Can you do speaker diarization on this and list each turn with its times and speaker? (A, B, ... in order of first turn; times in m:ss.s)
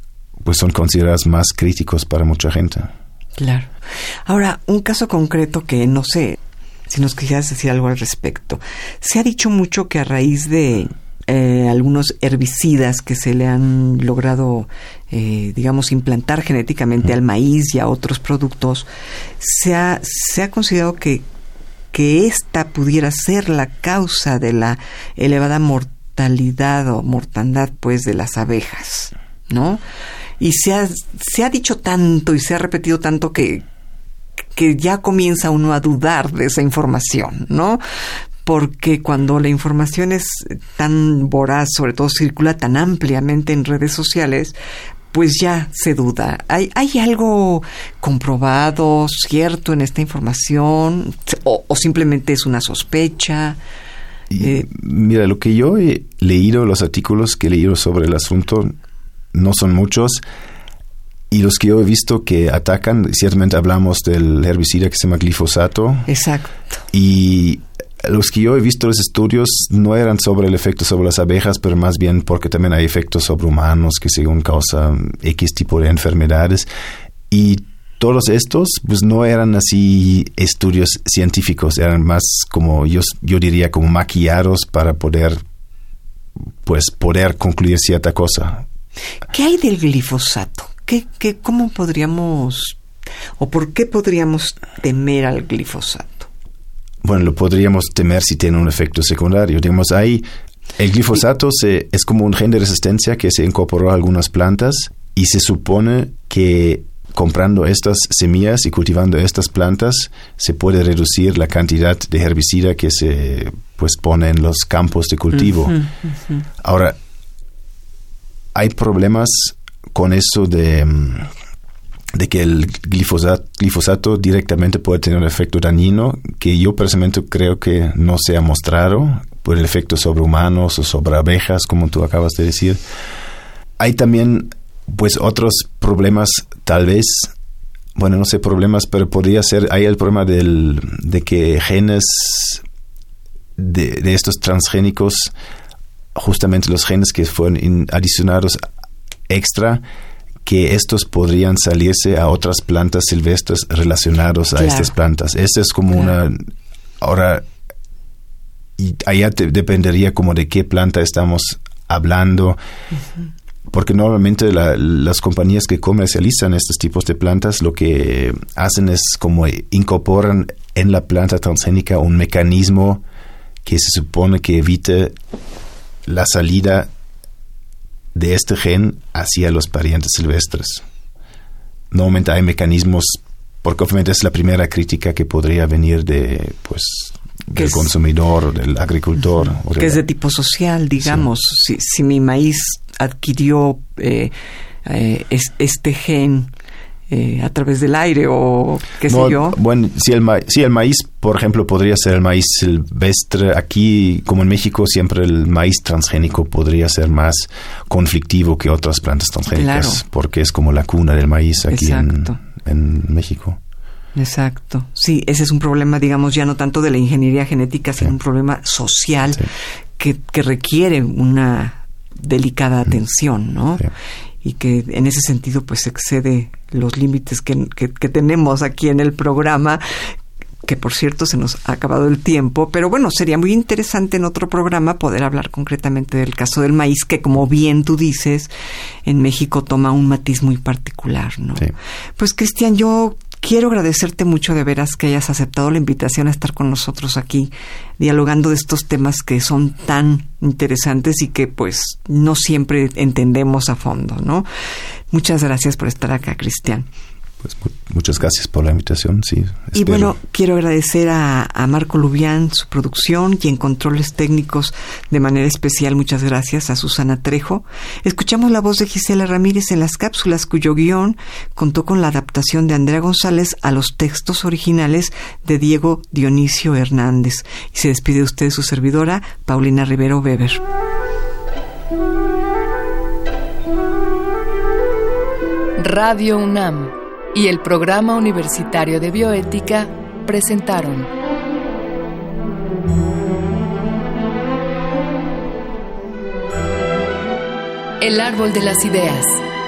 0:00.4-0:02.9 A
0:03.4-0:03.7 B
0:04.2-0:18.9 B
0:19.4-0:21.2 B
0:21.9-0:29.8 B
0:30.4-0:33.6 B
0:34.5-0:37.8 B
0:38.4-0:44.5 B
0:45.1-0:53.6 B
0:54.3-0:58.7 A
0:54.4-0:54.6 B
0:59.3-1:00.2 A
1:01.3-1:06.1 A
1:06.1-1:06.8 B
1:06.9-1:16.7 A
1:17.3-1:25.4 A
1:26.6-1:28.6 A
1:29.3-1:32.8 B
1:33.4-1:36.3 B
1:37.0-1:40.2 A
1:40.8-1:55.8 A
1:55.7-1:56.4 B
1:56.6-1:57.0 A
1:58.5-2:01.3 A
2:02.1-2:12.8 A
2:13.8-2:17.3 A
2:17.9-2:22.6 A
2:23.6-2:25.3 A
2:26.1-2:28.6 A
2:29.3-2:29.8 A
2:30.4-2:37.5 A
2:34.6-2:34.9 B
2:38.8-2:42.6 A
2:43.7-2:53.0 A
2:53.6-2:55.1 A
2:56.0-2:56.9 A
2:58.1-3:00.8 A
3:01.9-3:10.0 A
3:07.6-3:07.9 B
3:09.7-3:16.5 B
3:11.0-3:11.2 A
3:17.1-3:19.6 B
3:19.1-3:33.6 A
3:29.5-3:30.0 B
3:31.7-3:32.4 B
3:34.2-3:43.9 B
3:44.4-3:58.5 B
3:59.0-4:14.5 B
4:15.1-4:16.9 B
4:17.4-4:20.1 A
4:19.7-4:40.6 B
4:45.8-4:51.1 C
4:58.0-4:59.4 C